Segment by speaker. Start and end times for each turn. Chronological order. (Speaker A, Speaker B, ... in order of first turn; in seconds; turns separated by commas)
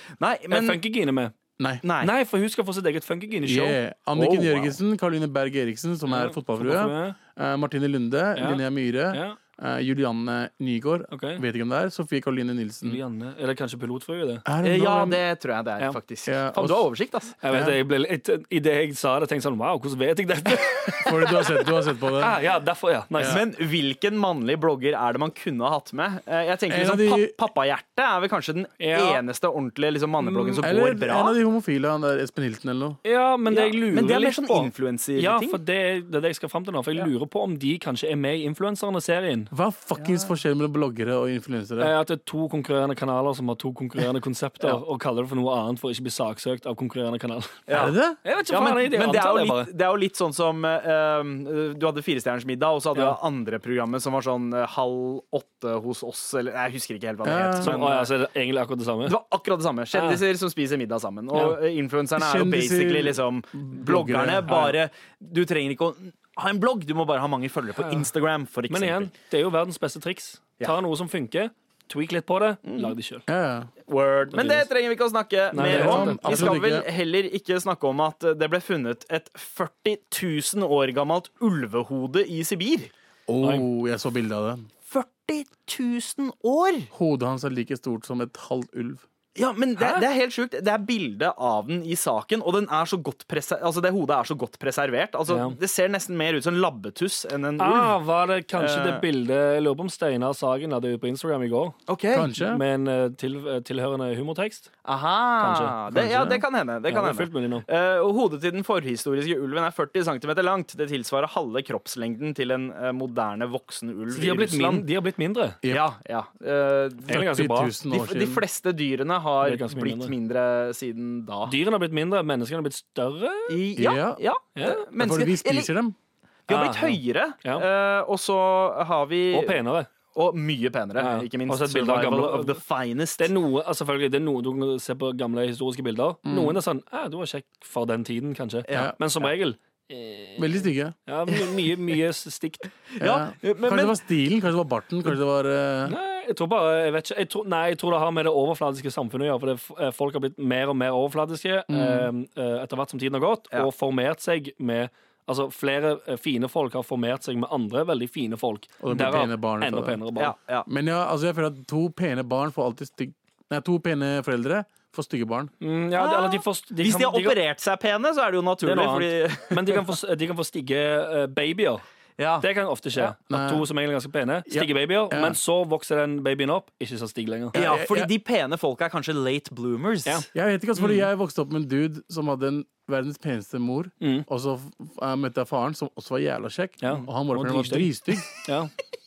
Speaker A: 0.2-0.8, Speaker B: 0.5-1.4, Speaker A: 1.8-2.1, Speaker B: 2.0-3.8, Speaker C: 3.4-13.0, Speaker A: 4.1-4.7, Speaker B: 6.1-7.2, Speaker B: 8.3-9.4, Speaker B: 11.1-11.4, Speaker B: 12.8-14.4, Speaker C: 14.4-15.2, Speaker A: 14.6-17.4, Speaker C: 16.2-16.8, Speaker B: 17.4-21.5, Speaker C: 17.5-17.8, Speaker C: 21.0-22.4, Speaker B: 22.1-23.4, Speaker A: 23.2-31.4, Speaker C: 26.7-27.4, Speaker B: 28.8-29.2, Speaker B: 30.2-30.6, Speaker C: 30.6-33.0, Speaker B: 33.0-39.5, Speaker A: 33.5-35.6, Speaker C: 39.5-41.9, Speaker A: 40.0-40.3, Speaker B: 41.8-47.7, Speaker A: 47.7-48.0, Speaker C: 47.7-48.2, Speaker B: 48.2-49.7, Speaker A: 48.5-58.1, Speaker C: 57.2-57.8, Speaker B: 57.6-59.1, Speaker A: 59.1-69.1, Speaker B: 59.9-60.2, Speaker B: 61.3-61.6, Speaker C: 62.1-64.7, Speaker B: 64.5-64.7, Speaker B: 67.8-68.1, Speaker B: 68.7-73.3, Speaker A: 72.7-72.9, Speaker C: 73.3-73.7, Speaker A: 73.9-82.9, Speaker B: 74.3-74.7, Speaker B: 75.5-76.5, Speaker C: 75.6-76.8, Speaker C: 83.3-84.7, Speaker B: 83.4-83.7, Speaker A: 84.9-86.9, Speaker C: 86.9-89.0, Speaker A: 89.3-98.0, Speaker B: 89.8-90.0, Speaker B: 95.3-95.6, Speaker B: 97.6-101.8, Speaker A: 98.5-99.0, Speaker A: 101.9-102.3, Speaker C: 102.1-102.6, Speaker B: 102.3-104.7, Speaker A: 104.8-114.8, Speaker B: 105.4-107.7, Speaker C: 105.9-106.4, Speaker B: 114.1-115.6, Speaker C: 115.6-115.9, Speaker A: 115.7-117.2, Speaker B: 117.1-117.7, Speaker C: 117.1-118.4, Speaker A: 117.9-121.5, Speaker B: 119.4-120.1, Speaker B: 121.5-123.6, Speaker A: 123.5-125.7, Speaker C: 123.8-124.2, Speaker B: 124.5-124.8, Speaker C: 125.0-126.0, Speaker A: 126.5-129.6, Speaker B: 126.5-127.6, Speaker B: 129.3-129.9, Speaker A: 130.1-133.3, Speaker B: 131.0-132.6, Speaker B: 133.2-142.7, Speaker C: 136.2-136.6, Speaker A: 138.7-138.9, Speaker C: 140.4-140.9, Speaker A: 143.0-144.0, Speaker C: 143.0-145.9, Speaker B: 145.8-160.3, Speaker C: 151.7-152.1, Speaker C: 158.8-160.0, Speaker A: 160.2-160.7, Speaker C: 160.7-165.5, Speaker B: 165.6-167.4, Speaker A: 165.9-169.9, Speaker B: 168.6-171.8, Speaker A: 172.2-172.4, Speaker B: 172.4-177.6, Speaker C: 173.3-173.6, Speaker C: 174.5-175.4, Speaker C: 177.5-178.1, Speaker A: 177.5-180.2, Speaker C: 180.3-188.3, Speaker B: 184.0-184.2, Speaker B: 186.8-188.7